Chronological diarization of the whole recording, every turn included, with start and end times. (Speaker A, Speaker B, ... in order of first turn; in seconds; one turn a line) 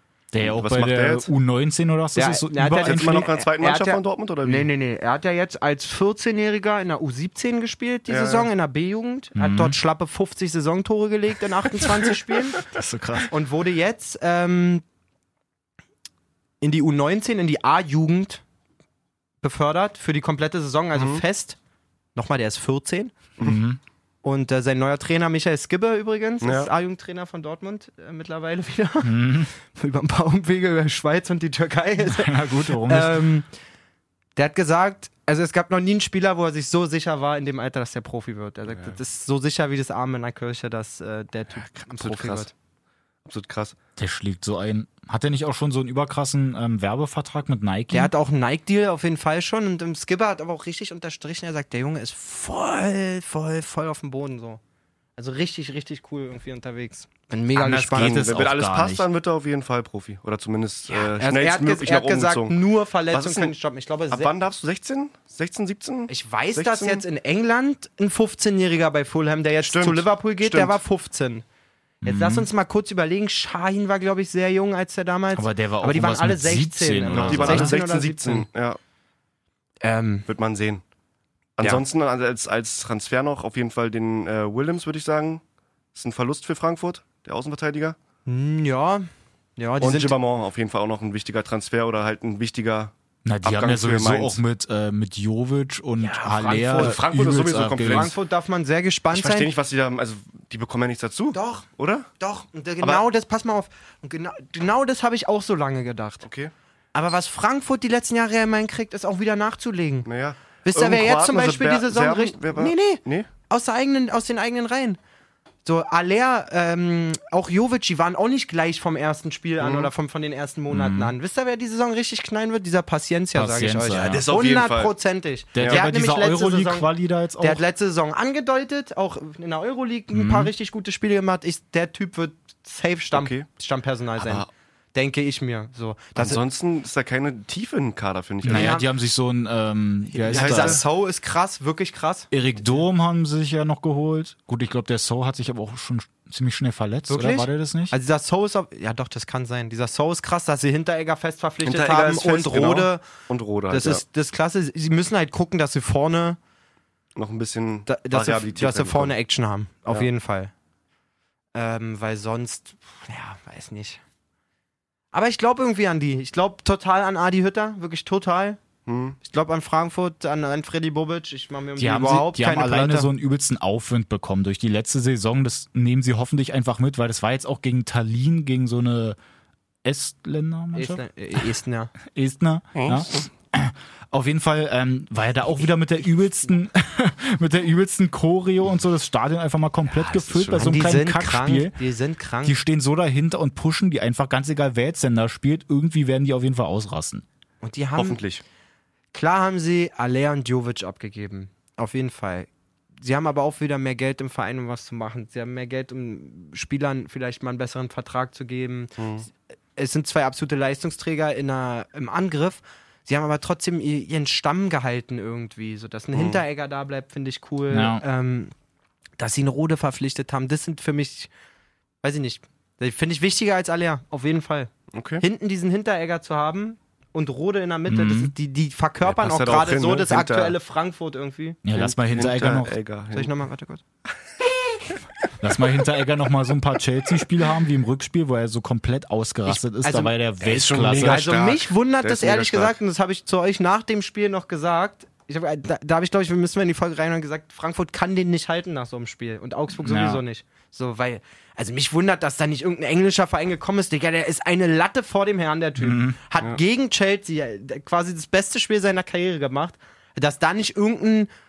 Speaker A: 0.3-3.3
Speaker B: 0.4-1.3
Speaker C: 2.1-12.6
Speaker B: 2.8-4.7
Speaker B: 8.1-8.5
Speaker A: 9.3-9.8
Speaker A: 12.6-13.3
Speaker C: 13.3-14.8
Speaker C: 16.6-18.4
Speaker C: 19.4-21.6
Speaker B: 20.9-21.2
Speaker C: 22.1-23.1
Speaker A: 23.4-23.8
Speaker C: 24.2-33.5
Speaker B: 26.4-26.7
Speaker A: 29.0-29.5
Speaker A: 32.1-33.3
Speaker C: 34.4-42.5
Speaker B: 38.7-39.0
Speaker B: 41.6-42.5
Speaker B: 43.2-43.8
Speaker A: 44.0-48.1
Speaker C: 47.9-54.6
Speaker C: 55.2-58.4
Speaker A: 57.5-59.1
Speaker B: 58.0-63.5
Speaker C: 60.9-64.3
Speaker B: 64.1-67.0
Speaker C: 66.1-71.5
Speaker B: 69.6-70.8
Speaker A: 72.0-72.5
Speaker C: 72.0-78.5
Speaker A: 75.3-77.8
Speaker B: 77.1-78.8
Speaker C: 79.8-80.3
Speaker B: 80.3-80.8
Speaker B: 81.6-85.4
Speaker B: 85.9-88.0
Speaker C: 88.3-90.2
Speaker B: 89.8-94.4
Speaker A: 93.2-98.1
Speaker C: 96.0-97.0
Speaker B: 96.6-98.1
Speaker C: 97.8-99.5
Speaker B: 99.1-102.1
Speaker C: 101.3-101.7
Speaker C: 102.2-106.3
Speaker B: 106.2-106.5
Speaker C: 106.9-110.1
Speaker B: 110.1-113.3
Speaker C: 110.7-115.0
Speaker C: 115.7-136.4
Speaker B: 119.6-119.9
Speaker A: 120.7-121.1
Speaker A: 123.3-124.2
Speaker B: 124.0-125.0
Speaker A: 125.5-127.6
Speaker A: 130.1-130.5
Speaker B: 133.1-133.5
Speaker B: 134.2-134.5
Speaker B: 136.2-138.8
Speaker A: 138.4-140.8
Speaker C: 138.5-138.9
Speaker C: 140.2-142.3
Speaker B: 140.3-140.8
Speaker A: 142.3-147.9
Speaker C: 147.1-153.1
Speaker B: 151.6-154.0
Speaker C: 153.7-156.4
Speaker B: 157.2-159.1
Speaker C: 157.9-160.5
Speaker C: 161.6-164.0
Speaker C: 165.1-168.6
Speaker B: 168.9-169.2
Speaker C: 169.2-173.1
Speaker A: 171.8-179.2
Speaker A: 179.8-181.5
Speaker C: 180.8-181.9
Speaker A: 182.1-191.8
Speaker B: 182.8-183.3
Speaker B: 189.9-190.7
Speaker C: 190.5-192.6
Speaker A: 192.4-197.2
Speaker C: 197.6-198.2
Speaker B: 198.0-198.4
Speaker C: 199.1-209.0
Speaker B: 209.0-209.3
Speaker C: 209.8-218.5
Speaker B: 216.1-216.4
Speaker A: 217.7-218.0
Speaker C: 219.2-221.3
Speaker C: 222.0-231.6
Speaker B: 224.9-225.2
Speaker A: 227.9-228.3
Speaker B: 229.0-230.6
Speaker A: 231.7-232.7
Speaker B: 231.7-233.3
Speaker C: 233.1-233.8
Speaker A: 235.4-241.4
Speaker C: 239.5-240.1
Speaker B: 240.4-242.8
Speaker C: 241.0-261.3
Speaker A: 249.8-250.2
Speaker A: 255.8-256.2